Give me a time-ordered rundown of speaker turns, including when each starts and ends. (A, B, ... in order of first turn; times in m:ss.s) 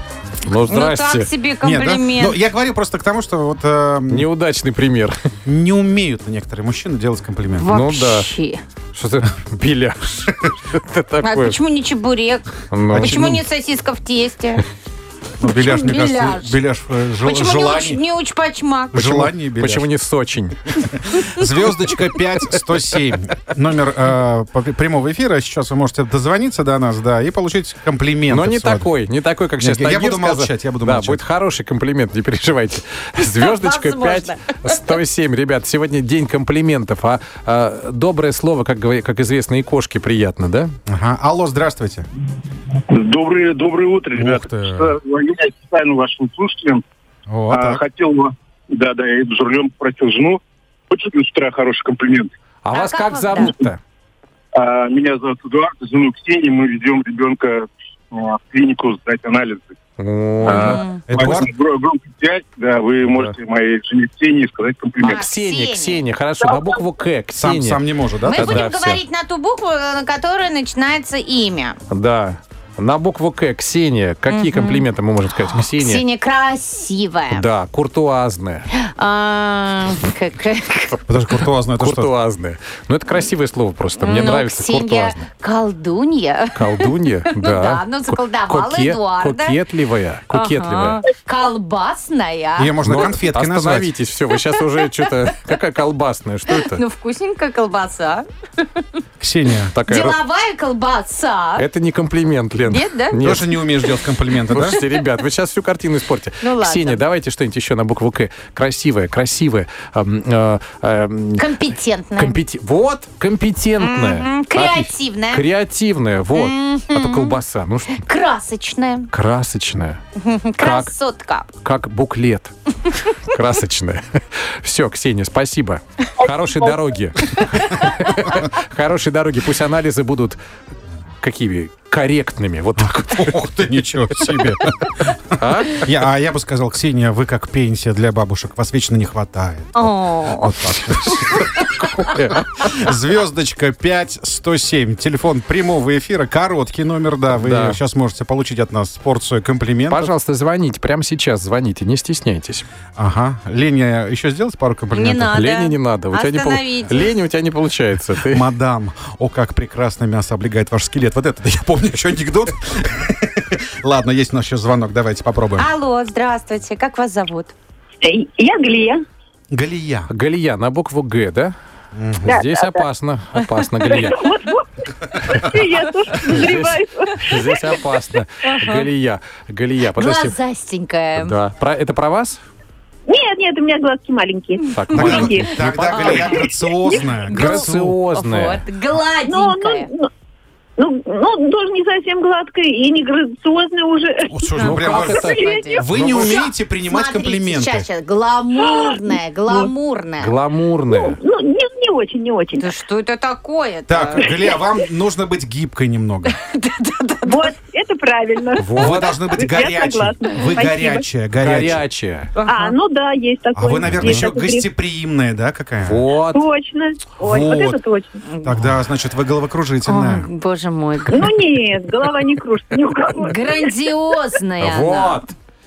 0:00.4-0:01.3 A
0:00.5-0:02.4 B
0:01.6-0:04.3 C
0:04.1-0:05.2 A
0:05.4-0:07.8 C
0:07.6-0:08.6 B
0:07.7-0:08.3 A
0:08.9-0:11.6 A
0:11.2-0:14.6 B
0:12.7-0:13.3 A
0:12.9-0:13.4 C
0:15.4-0:18.0 C
0:15.4-0:16.6 B
0:17.2-0:19.3 B
0:18.9-0:19.9 C
0:19.0-0:21.1 A
0:21.1-0:28.9 C
0:28.3-0:40.7 A
0:29.6-0:31.2 C
0:33.2-0:34.8 B
0:40.9-0:42.1 C
0:42.9-0:46.8 D
0:44.2-0:45.0 C
0:47.3-0:47.8 C
0:47.5-0:52.3 D
0:52.6-0:53.8 A
0:52.7-0:53.6 B
0:54.5-0:59.8 D
1:00.0-1:00.8 A
1:00.4-1:05.2 D
1:00.5-1:01.0 B
1:01.1-1:01.5 C
1:03.1-1:03.3 A
1:05.0-1:09.0 A
1:05.0-1:06.0 B
1:07.3-1:08.6 C
1:08.2-1:11.8 B
1:11.9-1:16.0 A
1:14.3-1:14.9 B
1:15.5-1:17.5 B
1:17.3-1:18.7 A
1:18.7-1:21.0 B
1:21.1-1:22.1 C
1:21.8-1:25.3 A
1:24.0-1:29.6 B
1:26.6-1:31.0 A
1:30.3-1:32.8 B
1:32.6-1:33.9 C
1:32.8-1:36.8 A
1:36.5-1:38.3 B
1:39.2-1:39.7 C
1:39.7-1:40.2 A
1:39.9-1:41.7 B
1:41.6-1:43.9 A
1:42.7-1:43.2 B
1:43.2-1:44.8 C
1:44.5-1:51.6 A
1:46.4-1:47.0 B
1:51.4-1:52.4 B
1:52.2-1:58.0 A
1:53.8-1:55.4 B
1:56.3-1:57.4 B
1:58.0-1:59.1 B
1:59.1-2:00.0 A
2:00.2-2:01.5 B
2:00.6-2:00.9 A
2:01.6-2:10.4 A
2:07.4-2:07.9 B
2:11.2-2:13.4 A
2:13.0-2:30.1 C
2:14.2-2:14.6 A
2:15.4-2:15.9 A
2:19.8-2:20.6 B
2:21.2-2:21.7 B
2:22.0-2:22.5 A
2:27.3-2:27.8 A
2:29.9-2:32.7 A
2:33.0-2:35.4 C
2:34.9-2:37.1 B
2:35.2-2:38.4 A
2:38.2-2:45.7 C
2:45.6-2:47.5 B
2:48.0-2:49.0 E
2:49.5-2:50.1 C
2:50.1-2:51.5 A
2:51.9-2:52.3 C
2:52.2-2:54.4 A
2:52.2-2:52.8 E
2:53.8-2:57.8 E
2:56.1-3:00.4 A
2:59.9-3:01.3 B
3:01.2-3:02.4 A
3:03.1-3:07.1 E
3:04.7-3:06.4 A
3:04.9-3:08.0 C
3:05.9-3:09.9 B
3:07.2-3:08.6 A
3:09.3-3:10.1 E
3:10.8-3:16.4 E
3:14.3-3:17.9 C
3:14.6-3:16.4 A
3:14.6-3:20.3 B
3:18.6-3:19.7 E
3:20.2-3:21.2 A
3:20.9-3:22.7 E
3:22.6-3:24.3 B
3:23.9-3:26.4 C
3:24.2-3:24.6 E
3:26.3-3:27.5 B
3:27.2-3:31.1 E
3:28.6-3:29.2 A
3:28.8-3:31.8 C
3:31.4-3:32.3 A
3:32.3-3:32.8 B
3:32.5-3:34.7 E
3:33.6-3:36.1 C
3:34.0-3:34.3 A
3:35.8-3:36.4 A
3:36.3-3:38.2 E
3:37.2-3:37.8 C
3:38.3-3:38.6 B
3:38.4-3:40.3 C
3:39.8-3:41.3 B
3:41.1-3:43.7 E
3:43.2-3:45.2 B
3:44.6-3:45.3 A